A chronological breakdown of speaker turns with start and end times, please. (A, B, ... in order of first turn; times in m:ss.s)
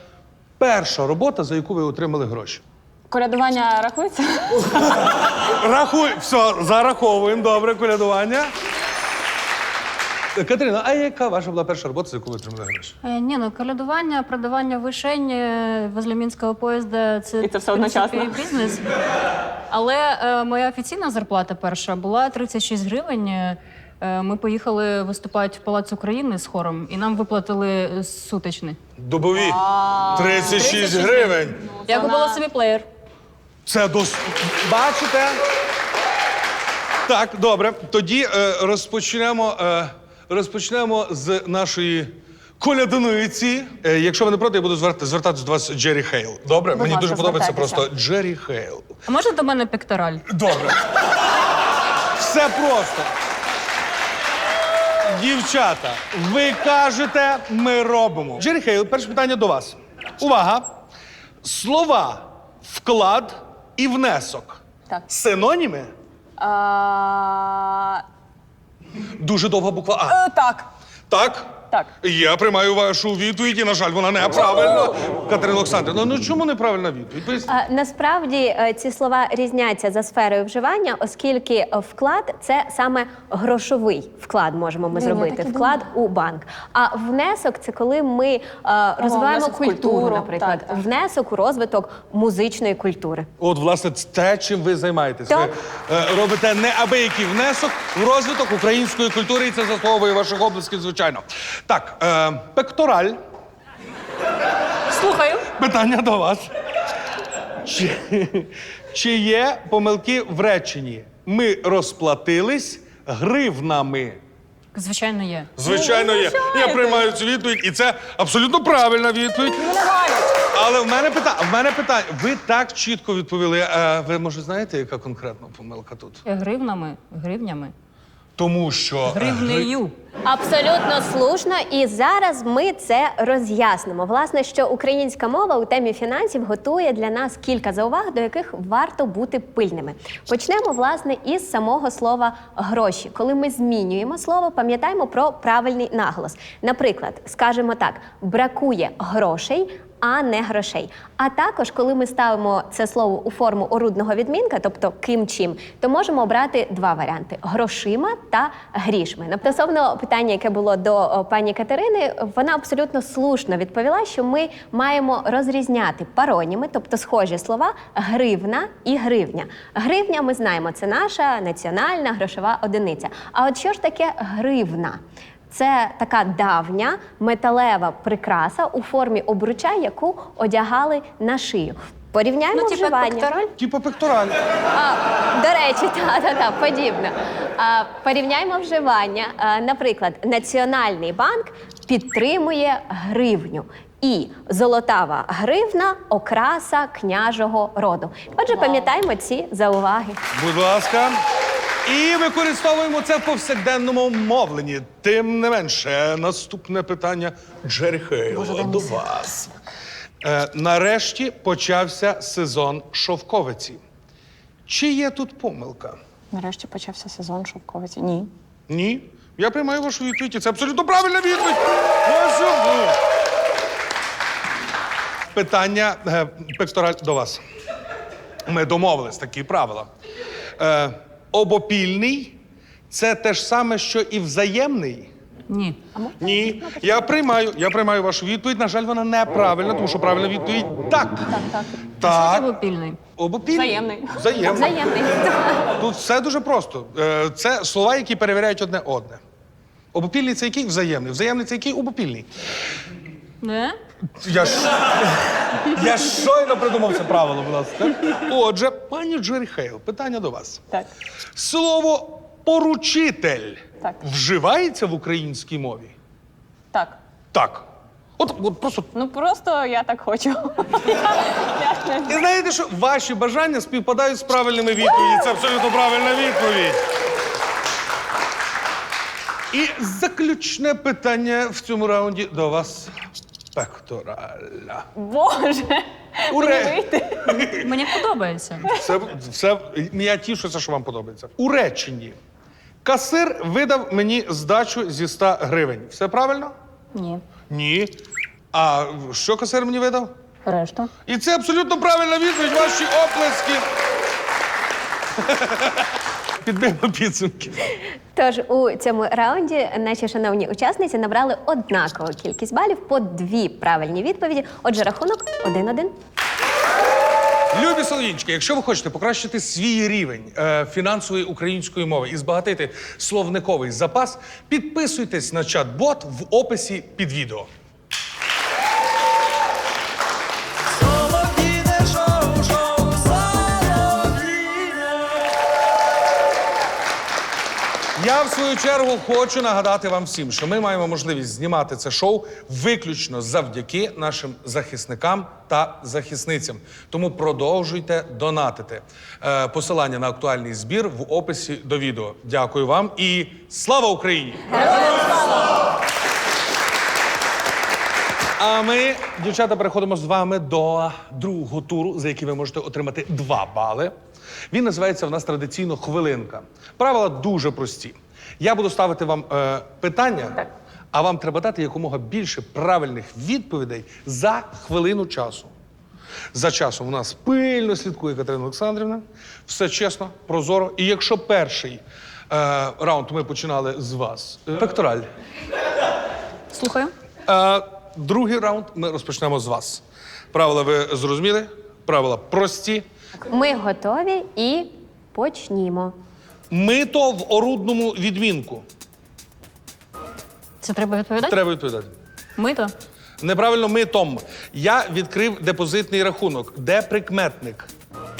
0:00.6-0:02.6 A
0:03.1-0:05.1 B
0:05.3-0:08.5 A
0:10.4-0:12.9 A
0:13.0-0:18.9 C
0:17.4-0:18.4 B
0:19.7-0:28.8 C
0:29.0-0:31.6 A
0:29.3-0:32.4 B
0:30.3-0:32.9 C
0:33.7-0:35.4 A
0:37.1-0:48.9 A
0:46.7-0:47.9 D
0:49.1-0:50.2 C
0:50.3-0:50.8 A
0:52.2-0:53.1 A
0:55.0-1:00.7 A
1:01.4-1:05.9 A
1:06.4-1:08.0 B
1:09.2-1:10.2 A
1:10.1-1:10.7 B
1:11.1-1:17.5 A
1:17.5-1:33.3 D
1:24.9-1:25.8 B
1:29.0-1:30.8 B
1:33.4-1:43.2 A
1:44.9-1:45.5 C
1:45.6-1:46.5 A
1:47.6-1:54.2 A
1:54.7-1:55.5 C
1:55.6-1:59.6 A
1:55.6-1:57.1 B
1:59.6-2:00.3 B
2:00.5-2:06.2 A
2:06.2-2:07.7 C
2:08.4-2:09.7 A
2:09.1-2:09.9 C
2:10.2-2:55.0 D
2:55.5-3:03.4 D
3:02.5-3:03.5 C
3:03.6-3:04.4 A
3:04.7-3:20.2 D
3:18.6-3:18.8 B
3:20.3-3:21.2 A
3:21.8-3:29.5 A
3:28.3-3:29.3 B
3:30.2-3:33.8 A
3:34.7-3:36.0 A
3:36.3-3:38.3 B
3:38.7-3:43.0 A
3:45.3-3:47.4 A
3:48.5-3:49.9 A
3:50.6-3:52.4 A
3:52.9-3:55.1 A
3:55.5-3:55.8 C
3:56.0-3:56.8 B
3:56.2-4:01.3 A
4:01.3-4:01.7 B
4:02.0-4:02.5 A
4:02.0-4:03.0 C
4:03.2-4:04.8 A
4:03.5-4:04.7 B
4:04.4-4:05.7 D
4:05.7-4:09.2 A
4:09.9-4:12.3 A
4:13.4-4:13.8 C
4:14.2-4:20.6 A
4:21.4-4:25.9 A
4:26.7-4:27.0 B
4:27.3-4:27.7 A
4:28.2-4:28.9 A
4:28.9-4:32.2 B
4:32.1-4:36.8 A
4:39.5-4:42.9 A
4:43.6-4:44.9 A
4:45.0-4:47.5 B
4:46.3-4:47.6 A
4:47.6-4:48.6 C
4:48.7-4:52.2 A
4:52.8-4:56.5 A
4:56.9-4:57.2 C
4:57.5-4:58.0 A
4:58.5-5:00.1 A
5:00.5-5:00.9 C
5:01.1-5:03.7 A
5:05.2-5:05.9 A
5:06.4-5:07.7 A
5:08.2-5:16.0 D
5:17.5-5:27.5 A
5:31.6-5:32.0 B
5:32.7-5:33.0 B
5:38.0-5:54.8 A
5:58.4-6:03.9 A
6:04.5-6:15.5 A
6:16.3-6:25.1 A
6:26.5-6:26.9 C
6:27.3-6:32.8 A
6:33.3-6:36.0 D
6:36.5-6:38.6 A
6:40.6-6:41.4 C
6:41.2-6:41.9 A
6:42.4-6:42.7 C
6:43.2-6:47.7 A